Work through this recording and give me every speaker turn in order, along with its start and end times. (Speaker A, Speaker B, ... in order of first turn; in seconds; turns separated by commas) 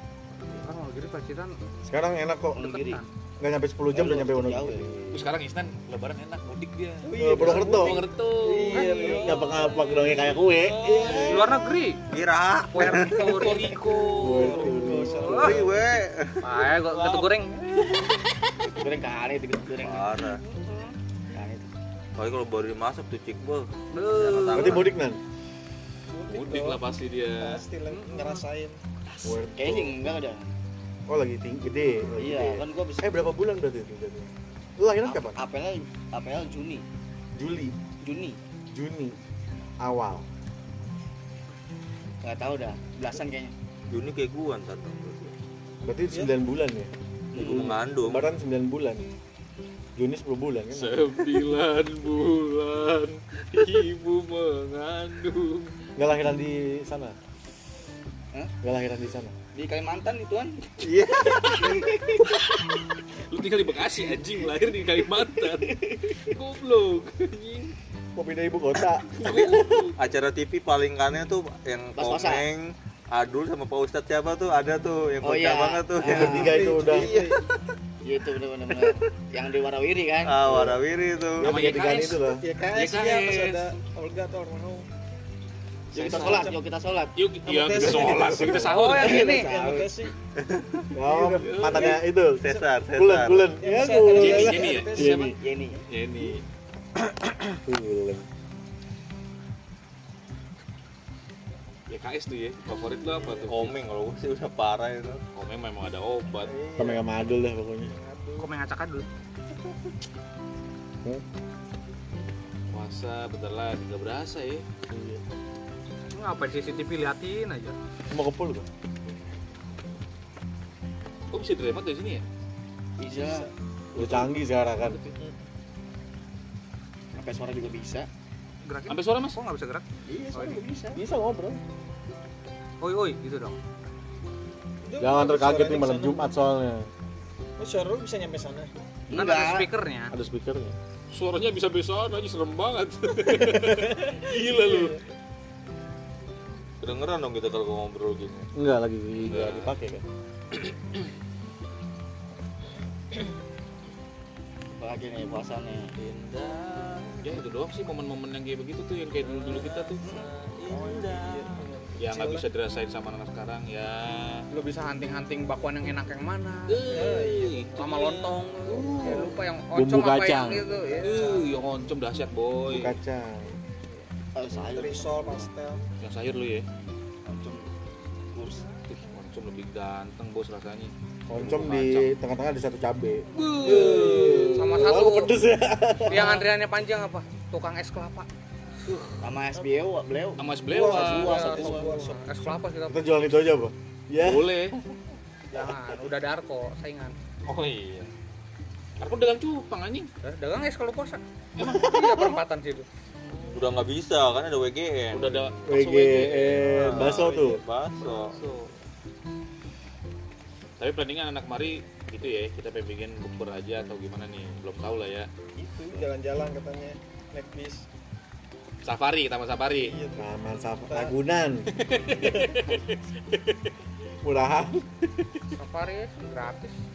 Speaker A: 0.5-1.6, Speaker B: 1.8-2.8, Speaker C: 2.5-3.0, Speaker A: 2.6-3.1, Speaker B: 3.4-4.9, Speaker C: 3.9-5.2, Speaker D: 5.1-11.5, Speaker E: 7.0-9.9, Speaker B: 7.1-8.0, Speaker C: 8.4-9.4, Speaker A: 8.7-9.2, Speaker B: 9.1-11.5, Speaker E: 10.8-11.4, Speaker A: 11.2-12.0, Speaker F: 12.1-13.4, Speaker A: 12.7-13.8, Speaker D: 12.9-15.0, Speaker B: 14.1-15.8, Speaker E: 14.4-15.6, Speaker A: 15.2-15.5, Speaker F: 15.3-16.4, Speaker A: 16.4-17.6, Speaker D: 16.8-17.7, Speaker C: 18.7-20.2, Speaker F: 19.8-20.4, Speaker A: 20.3-20.9, Speaker C: 21.3-21.7, Speaker F: 22.2-24.8, Speaker A: 23.9-24.9, Speaker B: 24.5-25.2, Speaker E: 26.1-28.8, Speaker D: 26.3-27.6, Speaker A: 27.9-28.4, Speaker C: 29.2-30.5, Speaker B: 29.2-30.0, Speaker B: 31.1-35.4, Speaker C: 32.2-33.2, Speaker C: 35.0-36.8, Speaker B: 37.3-37.8, Speaker C: 38.0-38.4, Speaker B: 38.7-39.2, Speaker B: 39.8-40.2, Speaker C: 42.2-43.5, Speaker F: 43.9-45.3, Speaker B: 45.8-49.0, Speaker E: 46.1-46.3, Speaker F: 47.3-48.2, Speaker C: 47.4-47.7, Speaker B: 50.0-51.5, Speaker D: 50.7-55.7, Speaker B: 56.0-57.1, Speaker B: 58.6-59.3, Speaker C: 59.5-60.6, Speaker F: 60.8-62.0, Speaker C: 61.5-62.2, Speaker D: 62.2-62.7, Speaker D: 63.3-67.7, Speaker C: 65.4-66.2, Speaker B: 68.1-69.8, Speaker D: 69.1-70.0, Speaker F: 70.0-76.3, Speaker C: 72.0-72.5, Speaker C: 75.2-76.9, Speaker B: 76.0-77.2, Speaker E: 76.2-77.4, Speaker F: 76.9-77.2, Speaker C: 78.0-80.6, Speaker F: 80.2-81.6, Speaker B: 80.5-80.8, Speaker B: 81.4-82.4, Speaker D: 81.4-83.7, Speaker E: 81.8-84.8, Speaker C: 85.9-87.2, Speaker E: 85.9-86.6, Speaker D: 86.0-86.5, Speaker D: 87.2-89.3, Speaker E: 87.4-90.1, Speaker C: 87.9-90.0, Speaker B: 88.1-88.5, Speaker A: 88.5-89.5, Speaker F: 90.4-90.9, Speaker B: 90.9-95.3, Speaker E: 91.1-92.0, Speaker D: 91.3-92.0, Speaker F: 92.3-93.5, Speaker E: 93.5-95.3, Speaker D: 94.1-95.1, Speaker C: 94.2-95.8, Speaker D: 95.9-96.4, Speaker B: 97.5-98.2, Speaker D: 101.9-103.8, Speaker E: 103.1-103.5, Speaker F: 103.5-105.2, Speaker D: 105.3-106.5, Speaker F: 106.4-107.0, Speaker E: 106.7-107.0, Speaker B: 106.8-107.9, Speaker E: 107.7-108.5, Speaker A: 108.4-109.0, Speaker D: 112.7-114.6, Speaker B: 114.9-115.2, Speaker A: 116.1-117.7, Speaker B: 118.1-118.7, Speaker D: 121.3-122.2, Speaker C: 123.0-124.2, Speaker E: 123.1-123.5, Speaker B: 123.9-125.0, Speaker D: 124.8-125.1, Speaker C: 127.2-128.1, Speaker A: 128.6-129.8, Speaker D: 128.9-129.4, Speaker E: 130.1-130.9, Speaker C: 130.1-131.0, Speaker B: 130.9-131.6, Speaker A: 132.8-133.6, Speaker E: 134.8-136.3, Speaker B: 135.0-136.9, Speaker E: 137.6-138.7, Speaker C: 139.1-139.7, Speaker A: 139.1-140.1, Speaker B: 140.1-140.8, Speaker D: 141.1-145.0, Speaker B: 143.4-143.9, Speaker E: 144.3-145.0, Speaker F: 146.8-148.5, Speaker B: 148.5-150.0, Speaker D: 149.2-149.7, Speaker C: 154.8-155.9, Speaker F: 156.0-157.4, Speaker D: 157.2-160.0, Speaker F: 159.2-161.7, Speaker E: 160.7-162.4, Speaker D: 162.0-164.4, Speaker A: 164.5-167.1, Speaker D: 166.7-168.1, Speaker E: 166.9-169.3, Speaker A: 167.8-171.2, Speaker B: 168.8-169.2, Speaker B: 169.7-170.7, Speaker E: 170.7-171.5, Speaker D: 171.0-172.9, Speaker B: 172.7-173.6, Speaker C: 174.3-175.5, Speaker E: 174.5-175.8, Speaker D: 176.0-176.7, Speaker C: 177.2-177.6, Speaker C: 178.3-178.7, Speaker D: 178.9-182.1, Speaker B: 181.3-186.4, Speaker D: 183.3-184.6, Speaker E: 183.6-184.7, Speaker A: 184.5-185.4, Speaker A: 186.1-188.3, Speaker E: 186.2-186.4, Speaker C: 189.2-192.0, Speaker D: 190.4-191.5, Speaker E: 190.7-192.3, Speaker A: 191.0-193.1, Speaker B: 192.9-194.8, Speaker D: 194.2-194.8, Speaker A: 195.5-197.1, Speaker D: 197.5-198.1, Speaker D: 199.0-200.1, Speaker A: 200.2-202.8, Speaker B: 201.6-202.4, Speaker F: 203.5-205.6, Speaker D: 205.1-206.7, Speaker B: 205.7-207.6, Speaker F: 206.6-208.4, Speaker E: 206.7-207.6, Speaker D: 208.0-208.7, Speaker D: 210.8-215.3, Speaker E: 215.6-217.8, Speaker D: 218.8-220.0, Speaker E: 219.8-220.3, Speaker B: 220.2-222.7, Speaker E: 220.8-221.2, Speaker D: 221.7-223.7, Speaker B: 224.2-225.3, Speaker A: 225.6-226.8